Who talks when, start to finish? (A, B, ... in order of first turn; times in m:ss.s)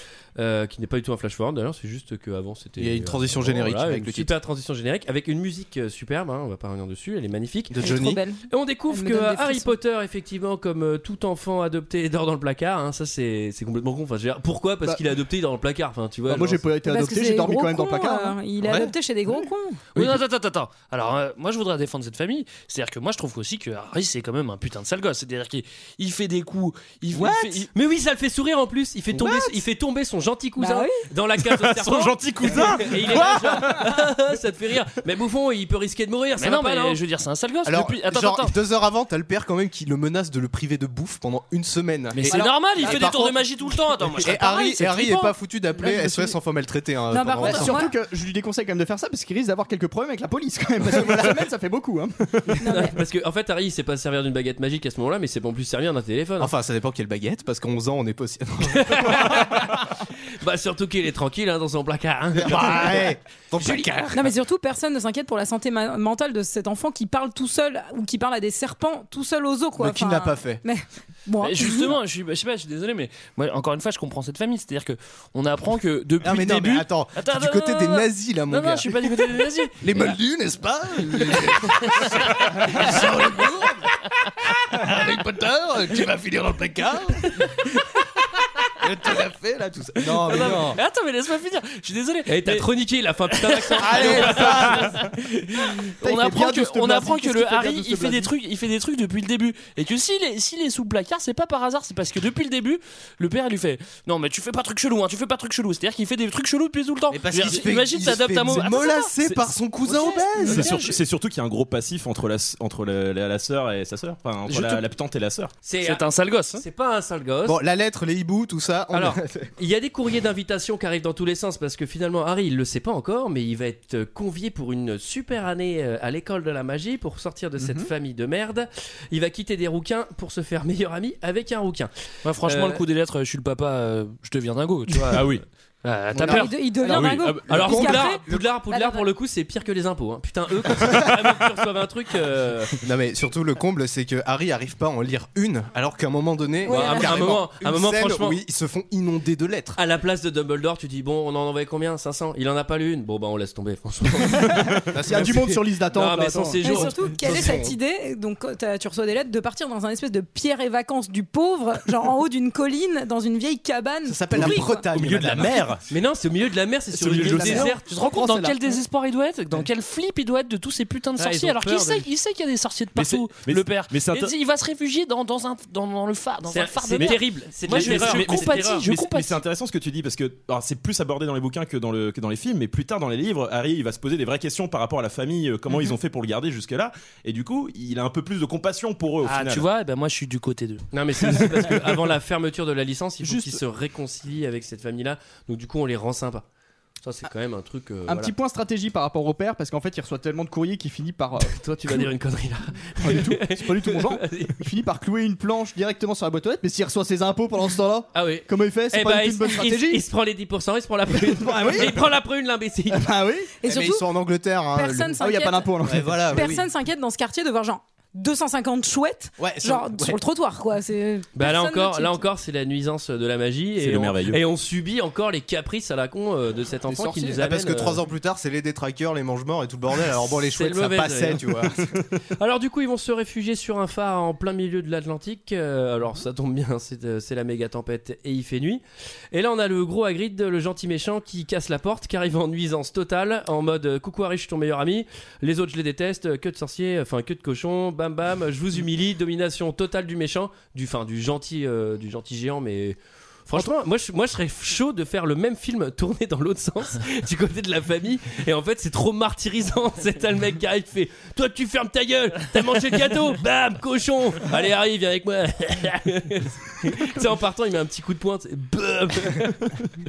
0:00.4-0:07.8 A
0:02.8-0:04.3 B
0:07.7-0:08.2 B
0:07.8-0:09.7 C
0:08.5-0:16.6 A
0:16.3-0:18.4 D
0:16.8-0:19.8 C
0:18.6-0:18.9 B
0:19.9-0:27.7 E
0:27.7-0:37.0 A
0:30.6-0:31.0 C
0:31.5-0:33.8 F
0:36.4-0:38.6 E
0:37.6-0:43.5 B
0:42.2-0:45.1 E
0:44.1-0:47.8 B
0:45.8-0:46.4 D
0:47.1-0:47.9 C
0:47.4-0:52.6 D
0:50.9-0:51.4 B
0:52.6-0:53.0 C
0:52.6-0:56.5 A
0:56.4-0:59.7 B
0:58.7-0:59.9 A
1:00.4-1:03.8 A
1:02.3-1:04.3 B
1:04.1-1:12.0 C
1:09.8-1:10.6 B
1:11.4-1:20.1 E
1:16.2-1:24.0 B
1:24.7-1:27.5 B
1:28.8-1:30.8 B
1:30.1-1:32.7 E
1:32.3-1:35.0 A
1:33.3-1:49.1 E
1:33.8-1:34.9 B
1:36.0-1:38.3 D
1:47.1-1:50.8 B
1:49.8-1:50.8 E
1:50.4-1:55.5 F
1:54.5-1:54.8 E
1:55.6-1:57.6 A
1:55.8-1:56.6 E
1:57.4-1:59.5 B
1:58.9-2:11.9 A
2:07.6-2:07.9 D
2:12.2-2:15.3 E
2:12.4-2:12.8 A
2:15.1-2:15.4 F
2:15.8-2:16.7 E
2:16.1-2:18.5 B
2:16.2-2:19.1 C
2:16.9-2:17.5 F
2:17.3-2:22.7 A
2:20.8-2:21.1 B
2:22.8-2:29.8 B
2:26.6-2:27.4 C
2:26.6-2:28.4 A
2:29.8-2:37.5 A
2:34.2-2:36.9 D
2:34.9-2:35.4 B
2:36.6-2:44.9 C
2:37.2-2:37.8 B
2:44.1-2:45.7 B
2:44.4-2:45.8 F
2:45.9-2:47.8 A
2:46.9-2:48.8 D
2:47.1-2:47.6 F
2:47.6-2:59.4 E
2:51.2-2:52.0 A
2:52.9-2:54.3 F
2:56.5-2:58.8 A
2:57.0-3:09.6 F
3:09.2-3:10.8 E
3:10.9-3:16.4 A
3:13.2-3:13.6 D
3:17.0-3:18.3 A
3:18.0-3:22.1 D
3:21.4-3:24.6 A
3:23.0-3:30.0 D
3:28.1-3:33.1 A
3:31.1-3:32.0 D
3:32.9-3:33.5 D
3:33.6-3:34.1 C
3:33.6-3:35.2 B
3:34.7-3:42.2 C
3:35.2-3:36.5 D
3:35.8-3:36.7 B
3:39.4-3:40.2 B
3:41.3-3:48.0 A
3:43.8-3:44.4 F
3:46.9-3:47.4 D
3:47.4-3:51.9 B
3:50.5-3:51.6 A
3:52.4-4:29.7 A